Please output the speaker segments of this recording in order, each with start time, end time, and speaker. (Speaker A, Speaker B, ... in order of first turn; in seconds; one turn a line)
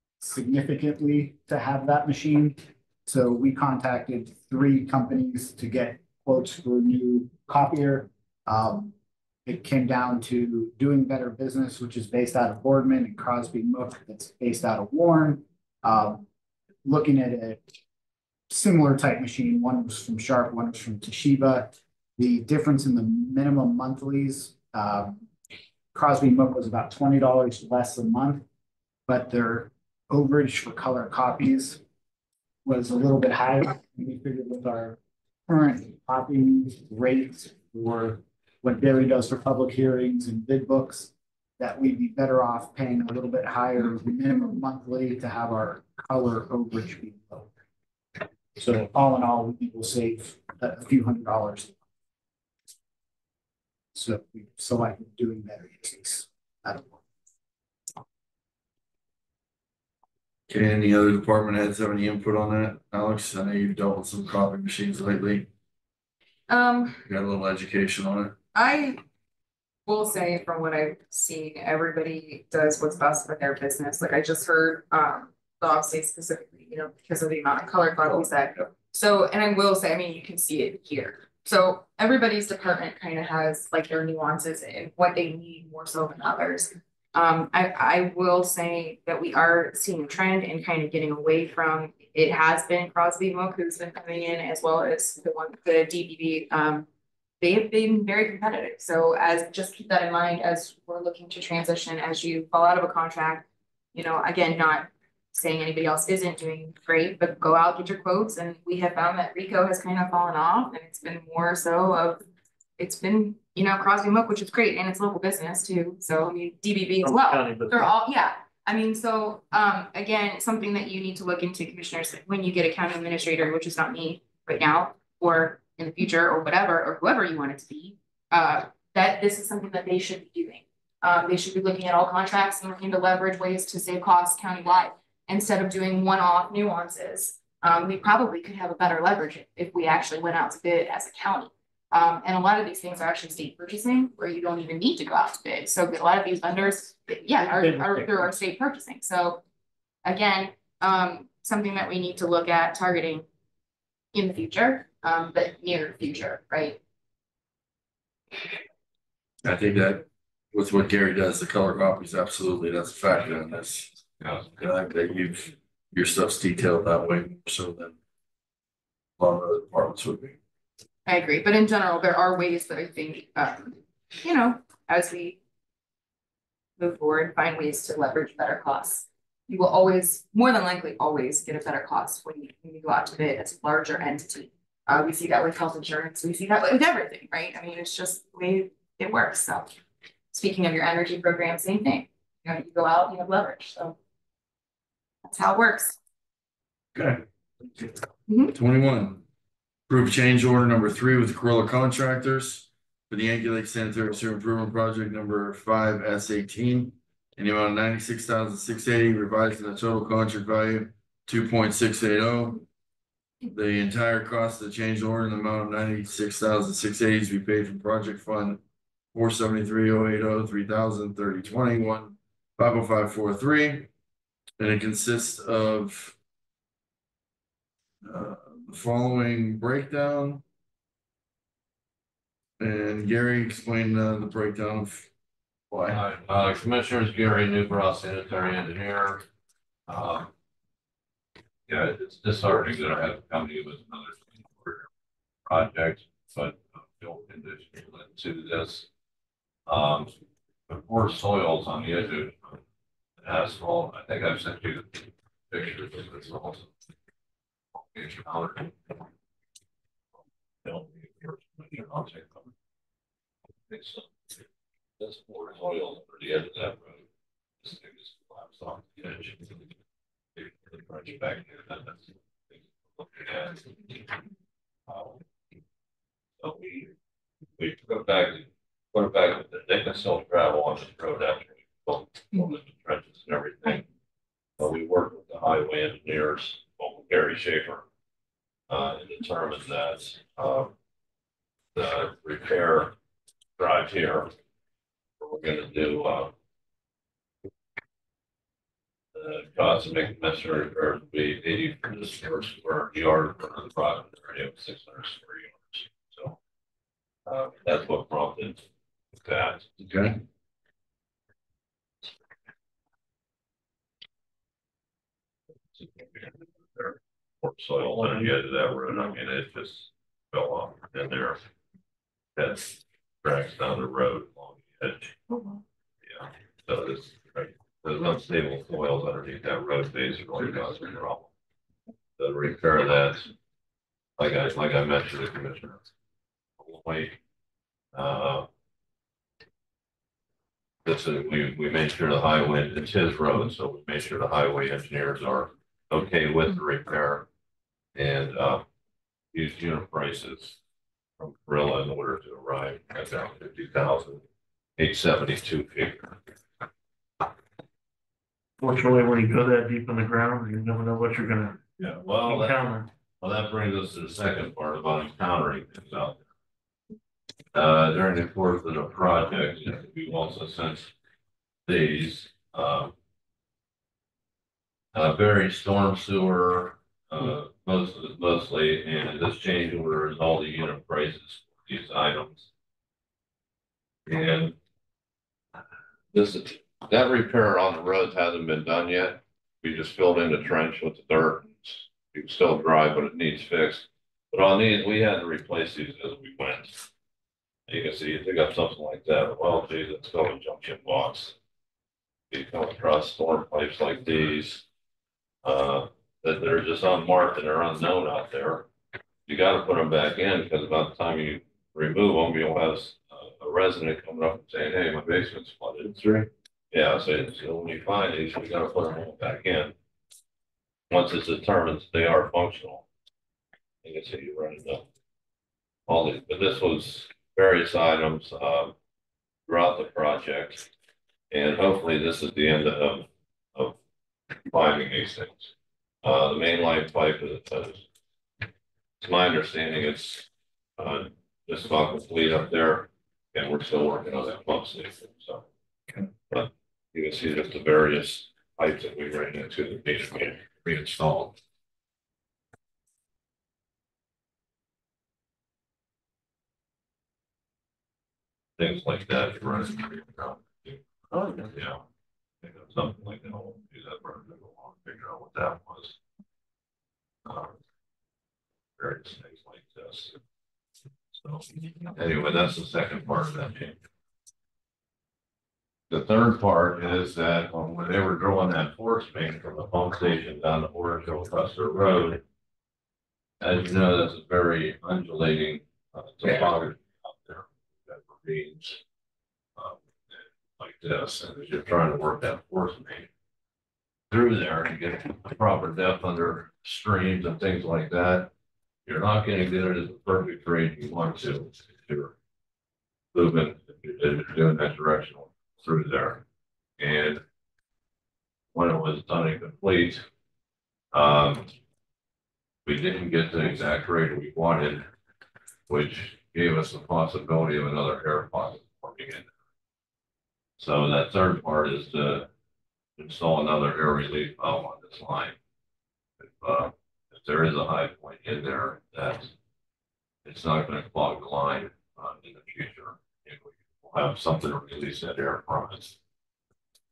Speaker A: 0.2-8.9
Speaker A: 9.4-16.3
Speaker A: 16.8-17.6
Speaker A: 18.5-25.2
Speaker A: 25.9-28.4
Speaker A: 29.1-31.8
Speaker A: 32.6-35.0
Speaker A: 35.5-47.5
Speaker A: 48.6-51.8
Speaker A: 53.9-57.0
Speaker B: 60.5-65.5
Speaker C: 66.5-67.0
Speaker B: 67.1-68.3
Speaker C: 68.5-69.0
Speaker C: 69.9-96.9
Speaker C: 97.4-112.2
Speaker C: 112.8-149.4
Speaker D: 117.0-118.0
Speaker D: 147.4-148.3
Speaker C: 150.0-153.3
Speaker C: 154.1-156.8
Speaker B: 159.4-163.9
Speaker E: 164.2-164.6
Speaker B: 164.6-168.0
Speaker B: 169.2-170.4
Speaker C: 171.1-175.4
Speaker C: 176.8-189.8
Speaker C: 190.3-193.9
Speaker C: 195.2-196.0
Speaker D: 197.6-197.9
Speaker C: 198.3-198.5
Speaker B: 198.6-199.2
Speaker B: 199.9-212.6
Speaker B: 213.5-218.6
Speaker B: 219.1-223.9
Speaker B: 224.6-226.2
Speaker B: 228.0-230.4
Speaker B: 232.6-235.1
Speaker B: 235.7-236.0
Speaker E: 235.9-239.2
Speaker E: 239.9-240.3
Speaker E: 241.7-244.9
Speaker E: 245.5-248.9
Speaker E: 249.7-250.1
Speaker E: 250.7-252.6
Speaker E: 253.2-256.7
Speaker E: 257.8-259.0
Speaker E: 260.6-262.5
Speaker E: 263.7-264.4
Speaker E: 265.0-267.1
Speaker E: 267.6-269.6
Speaker E: 270.4-274.1
Speaker E: 274.9-275.2
Speaker E: 276.4-276.9
Speaker E: 277.6-283.9
Speaker E: 284.6-287.8
Speaker E: 288.7-290.7
Speaker E: 291.7-292.9
Speaker E: 293.6-294.3
Speaker E: 295.2-296.3
Speaker E: 299.1-306.4
Speaker E: 307.3-309.8
Speaker B: 309.8-310.1
Speaker E: 315.7-321.4
Speaker D: 317.8-318.4
Speaker E: 322.4-325.2
Speaker D: 325.3-325.6
Speaker E: 326.0-331.3
Speaker E: 332.2-333.3
Speaker E: 334.2-335.8
Speaker E: 336.6-337.2
Speaker E: 337.9-338.5
Speaker E: 340.9-347.3
Speaker E: 347.9-348.6
Speaker E: 349.3-350.6
Speaker E: 351.2-354.2
Speaker E: 354.8-356.2
Speaker D: 358.6-361.6
Speaker E: 361.8-366.2
Speaker D: 362.2-362.9
Speaker E: 367.5-370.9
Speaker E: 371.7-372.9
Speaker E: 374.9-382.5
Speaker E: 384.1-384.6
Speaker E: 386.1-396.8
Speaker E: 397.7-401.4
Speaker E: 402.3-404.6
Speaker E: 405.4-408.7
Speaker E: 409.3-416.1
Speaker D: 415.9-416.2
Speaker E: 416.7-419.7
Speaker E: 420.9-422.9
Speaker E: 423.8-424.9
Speaker E: 425.9-428.8
Speaker E: 429.5-430.7
Speaker E: 431.3-433.8
Speaker E: 434.5-435.5
Speaker E: 436.0-437.9
Speaker E: 439.0-445.5
Speaker E: 446.3-451.4
Speaker E: 458.6-460.8
Speaker D: 461.1-461.5
Speaker E: 461.4-461.8
Speaker E: 462.4-466.0
Speaker E: 467.2-467.5
Speaker E: 468.8-470.2
Speaker E: 471.1-473.8
Speaker E: 475.9-482.2
Speaker E: 483.4-488.8
Speaker E: 489.6-493.1
Speaker E: 494.1-498.3
Speaker E: 498.9-502.1
Speaker E: 503.1-506.2
Speaker E: 506.8-507.2
Speaker E: 508.5-510.0
Speaker E: 510.9-511.5
Speaker E: 512.6-514.9
Speaker E: 515.7-519.3
Speaker E: 520.6-522.3
Speaker E: 523.0-525.4
Speaker E: 526.2-529.3
Speaker E: 530.2-536.0